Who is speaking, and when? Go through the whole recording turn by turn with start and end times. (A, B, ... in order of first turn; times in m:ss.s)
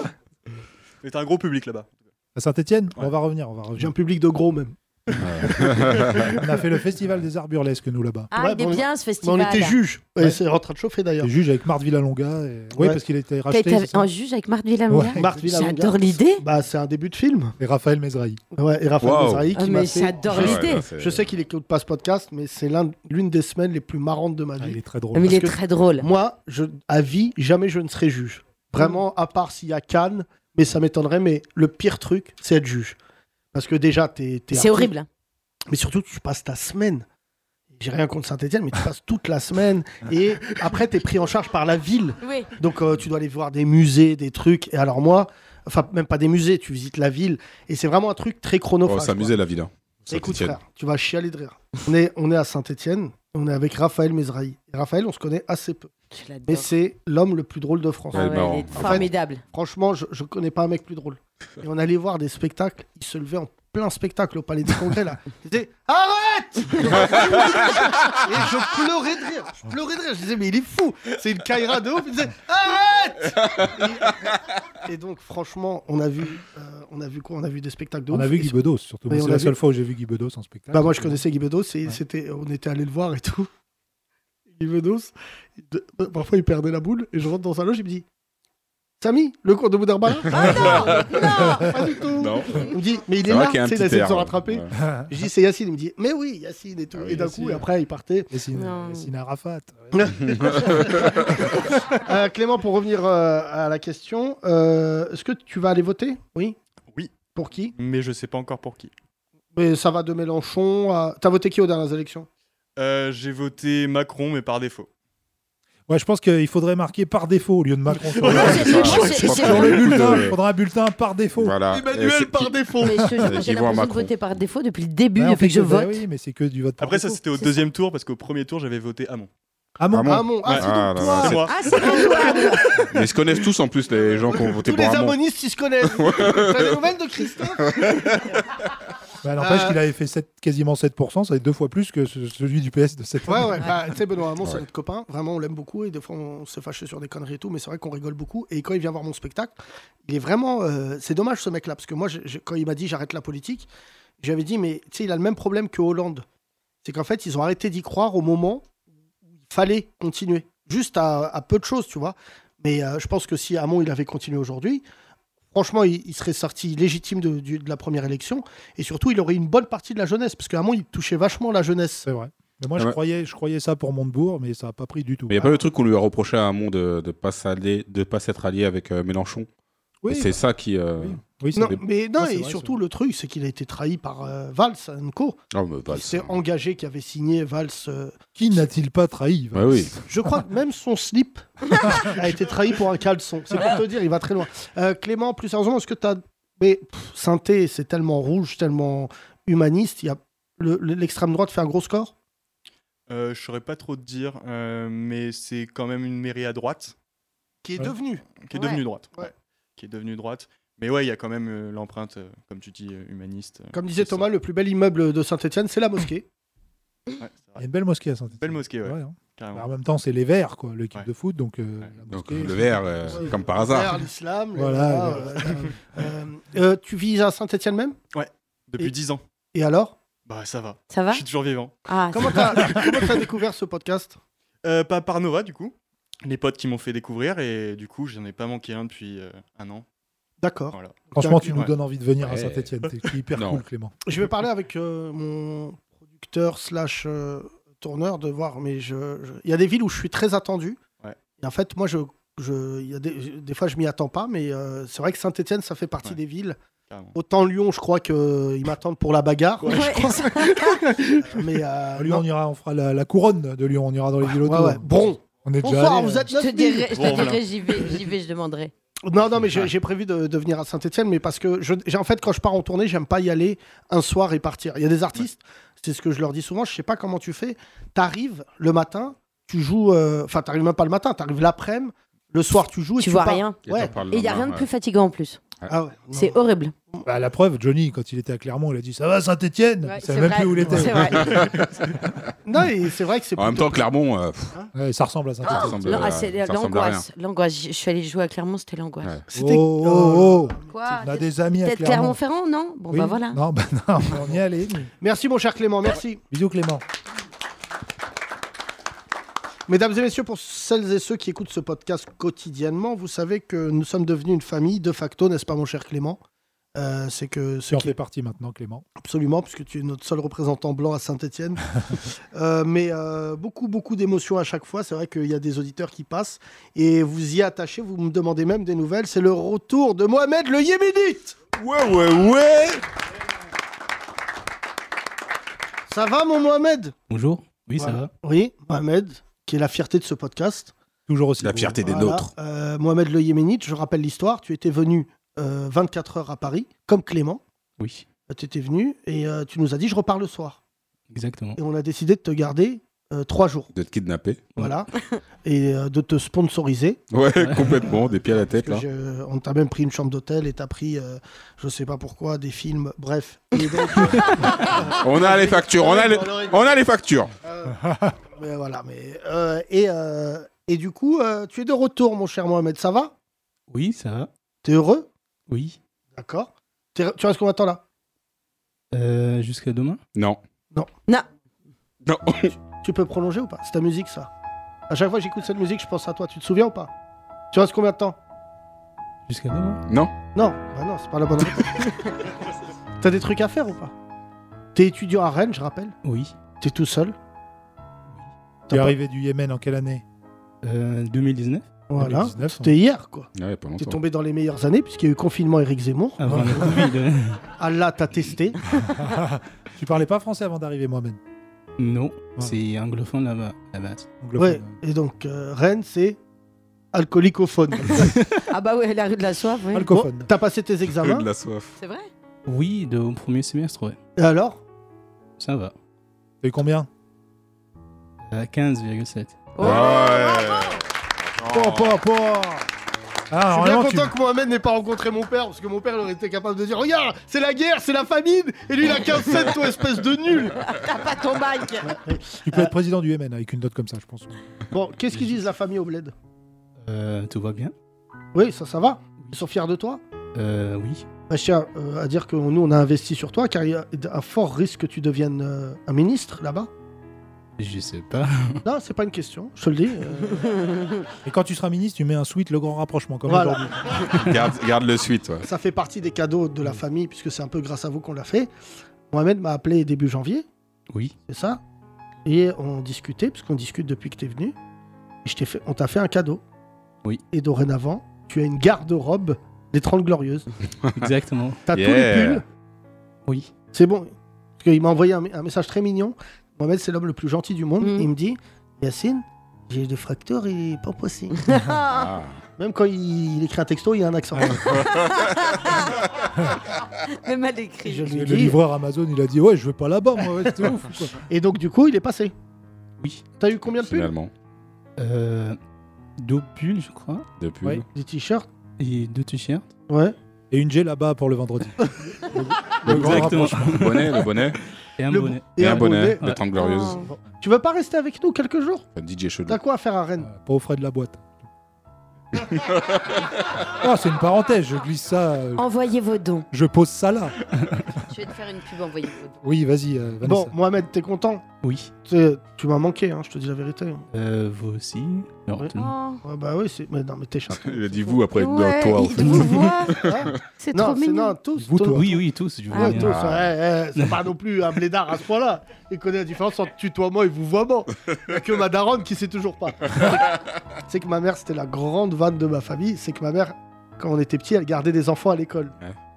0:01.0-0:02.1 A
0:02.4-0:03.9 B
0:03.8-0:06.4 C
0:05.2-0:06.3 D
0:06.3-0:08.3 B
0:08.3-0:09.8 E
0:08.4-0:11.3 C
0:11.2-0:14.1 B
0:12.8-0:13.0 C
0:13.5-0:16.4 E
0:14.9-0:15.4 B
0:15.2-0:17.6 C
0:17.6-0:18.4 B
0:18.5-0:33.0 C
0:19.0-0:19.5 D
0:19.5-0:20.9 E
0:20.2-0:21.3 D
0:24.6-0:25.4 B
0:25.2-0:26.1 E
0:33.5-0:34.9 C
0:34.5-0:35.1 E
0:35.7-0:37.0 C
0:37.7-0:49.4 C
0:42.2-0:42.5 E
0:48.9-0:50.6 D
0:50.1-0:55.9 C
0:56.1-0:56.7 E
0:56.4-1:18.6 C
0:58.1-0:59.1 D
0:58.1-0:59.4 E
1:18.1-1:21.2 B
1:19.1-1:19.6 C
1:20.7-1:23.5 C
1:24.5-1:28.0 C
1:29.0-1:38.3 C
1:30.4-1:31.2 D
1:32.2-1:34.7 D
1:37.0-1:37.4 D
1:37.2-1:37.6 B
1:38.3-1:41.0 B
1:38.5-1:39.1 E
1:39.9-1:46.6 C
1:40.2-1:41.1 D
1:47.4-1:47.7 C
1:47.8-1:48.9 A
1:49.5-1:52.3 C
1:52.8-1:54.9 A
1:55.9-2:01.6 B
1:58.1-2:00.2 A
1:58.2-1:59.8 E
1:58.2-2:00.4 D
2:01.4-2:04.1 D
2:01.7-2:02.9 C
2:02.8-2:05.9 E
2:05.2-2:07.2 B
2:06.8-2:09.3 A
2:09.8-2:10.3 B
2:09.9-2:11.7 D
2:10.1-2:12.9 C
2:10.4-2:11.7 A
2:11.4-2:12.8 E
2:12.9-2:15.2 D
2:14.3-2:17.9 C
2:15.9-2:16.8 D
2:17.7-2:18.1 D
2:19.2-2:23.9 B
2:19.4-2:19.8 C
2:23.3-2:29.5 C
2:30.0-2:33.7 C
2:34.2-2:36.2 C
2:36.8-2:38.7 C
2:39.4-2:44.8 C
2:45.5-2:52.1 C
2:52.1-2:55.4 B
2:55.3-2:59.5 D
3:00.0-3:00.4 B
3:00.1-3:01.8 D
3:01.0-3:02.8 B
3:01.5-3:05.4 C
3:05.5-3:06.4 D
3:05.9-3:08.7 C
3:08.4-3:10.4 B
3:09.5-3:09.9 D
3:10.1-3:22.1 C
3:11.9-3:12.2 B
3:23.1-3:27.0 A
3:27.6-3:28.3 C
3:28.4-3:34.3 A
3:28.5-3:28.8 E
3:33.7-3:36.3 C
3:37.2-3:37.7 A
3:37.6-3:43.3 B
3:38.4-3:39.7 A
3:42.1-3:44.0 D
3:43.1-3:48.0 C
3:44.6-3:45.6 B
3:45.4-3:45.7 A
3:48.1-3:49.2 A
3:49.5-3:50.0 C
3:50.3-3:51.8 A
3:50.9-3:51.2 E
3:51.9-3:52.8 E
3:52.1-3:54.2 C
3:52.6-3:53.1 A
3:54.6-3:59.8 A
4:00.4-4:01.6 C
4:00.7-4:01.7 A
4:01.1-4:04.0 B
4:02.2-4:02.7 D
4:03.4-4:03.6 D
4:04.1-4:10.8 C
4:11.4-4:16.6 C
4:16.9-4:17.2 A
4:17.1-4:22.2 C
4:19.6-4:20.8 E
4:19.8-4:20.1 A
4:22.0-4:26.3 B
4:24.4-4:27.3 C
4:26.3-4:28.7 E
4:26.9-4:27.8 A
4:29.0-4:43.9 C
4:43.0-4:45.4 E
4:43.7-4:44.7 D
4:45.7-4:46.4 C
4:46.1-4:46.7 E
4:47.0-4:51.4 B
4:49.8-4:51.6 E
4:51.1-4:51.8 D
4:52.4-4:53.9 C
4:53.4-4:54.6 D
4:54.7-4:56.1 B
4:55.4-4:59.1 E
4:55.4-4:57.1 D
4:59.3-5:00.9 C
4:59.4-5:02.2 B
5:00.7-5:03.4 E
5:02.9-5:04.9 B
5:05.0-5:06.2 C
5:06.3-5:06.8 B
5:09.7-5:16.2 C
5:16.8-5:17.9 C
5:17.7-5:18.8 B
5:19.0-5:31.4 C
5:31.6-5:32.8 D
5:35.9-5:36.9 C
5:37.1-5:38.1 F
5:37.8-5:40.7 C
5:41.1-5:42.2 B
5:41.4-5:42.3 D
5:41.8-5:47.4 C
5:47.8-5:48.1 F
5:48.3-5:50.6 C
5:51.1-5:51.6 F
5:51.6-5:53.7 C
5:53.8-5:54.4 D
5:54.6-5:54.9 C
5:55.4-5:57.0 C
5:57.1-5:58.8 D
5:57.4-5:57.8 F
5:58.5-6:06.9 C
6:04.6-6:07.3 D
6:07.4-6:13.1 C
6:13.7-6:14.3 F
6:14.6-6:15.1 C
6:15.5-6:15.8 F
6:16.2-6:17.8 C
6:18.9-6:20.0 F
6:20.2-6:20.4 D
6:22.0-6:22.5 D
6:22.3-6:24.3 C
6:24.9-6:26.9 C
6:27.5-6:28.2 C
6:29.3-6:29.8 F
6:29.9-6:30.1 D
6:30.4-6:32.3 C
6:33.0-6:33.9 C
6:34.8-6:36.0 C
6:36.0-6:36.4 F
6:36.6-6:37.2 C
6:38.7-6:39.0 C
6:38.7-6:40.0 B
6:40.6-6:41.7 F
6:41.9-6:46.6 C
6:42.0-6:42.7 B
6:43.4-6:44.0 D
6:46.2-6:47.4 F
6:46.3-6:46.8 B
6:47.6-6:48.6 C
6:48.8-6:51.2 B
6:51.8-6:54.1 F
6:54.2-6:54.8 B
6:54.4-6:56.2 C
6:56.9-6:58.1 C
6:58.5-6:59.9 E
6:59.7-7:00.3 B
6:59.9-7:01.3 C
7:01.0-7:01.8 D
7:01.8-7:02.1 E
7:02.4-7:04.0 F
7:04.2-7:04.6 C
7:05.4-7:05.8 F
7:06.4-7:06.9 B
7:08.3-7:09.5 F
7:09.6-7:10.8 E
7:09.6-7:10.8 D
7:11.4-7:12.0 D
7:11.4-7:12.7 B
7:13.3-7:14.1 B
7:13.5-7:20.6 C
7:20.6-7:21.9 E
7:21.8-7:22.7 C
7:22.4-7:24.4 B
7:24.7-7:26.1 C
7:26.8-7:27.7 F
7:28.4-7:30.0 C
7:30.3-7:31.1 F
7:31.3-7:36.7 C
7:37.6-7:38.6 F
7:38.6-7:40.6 C
7:41.2-7:44.3 B
7:43.3-7:43.8 C
7:44.1-7:45.5 D
7:45.4-7:48.5 C
7:49.1-7:50.5 C
7:51.3-7:51.6 C
7:52.2-7:54.6 C
7:55.2-7:56.4 C
7:57.3-8:00.5 C
8:01.0-8:01.6 F
8:01.7-8:02.4 C
8:01.7-8:02.4 D
8:03.7-8:11.4 C
8:07.8-8:08.1 E
8:11.5-8:12.1 E
8:11.9-8:12.4 D
8:12.6-8:14.7 C
8:14.7-8:16.0 E
8:17.0-8:18.1 E
8:17.8-8:18.6 C
8:18.1-8:21.2 B
8:20.7-8:22.3 C
8:23.0-8:23.3 F
8:23.4-8:24.1 C
8:23.6-8:24.3 D
8:25.0-8:25.6 F
8:26.2-8:27.3 F
8:27.4-8:27.8 D
8:27.9-8:28.5 C
8:28.8-8:29.7 F
8:29.9-8:30.2 C
8:30.5-8:34.1 B
8:32.8-8:33.3 C
8:32.8-8:34.6 D
8:32.9-8:35.7 F
8:35.1-8:36.2 C
8:35.6-8:37.1 D
8:36.5-8:37.1 E
8:37.4-8:38.9 C
8:39.0-8:39.6 D
8:39.5-8:40.3 C
8:40.2-8:41.3 B
8:42.5-8:43.1 D
8:43.7-8:45.7 B
8:45.6-8:46.5 E
8:46.5-8:48.0 B
8:48.1-8:49.4 E
8:49.4-8:50.6 B
8:50.2-8:51.5 C
8:51.6-8:51.9 F
8:52.0-8:54.0 C
8:54.1-8:55.9 F
8:55.6-8:58.2 C
8:55.7-8:56.2 E
8:57.5-9:00.1 D
8:58.3-9:01.4 E
8:59.2-8:59.8 F
8:59.9-9:15.7 C
9:01.6-9:02.2 B
9:01.9-9:03.3 F
9:02.7-9:03.1 E
9:03.0-9:03.5 D
9:04.0-9:04.2 F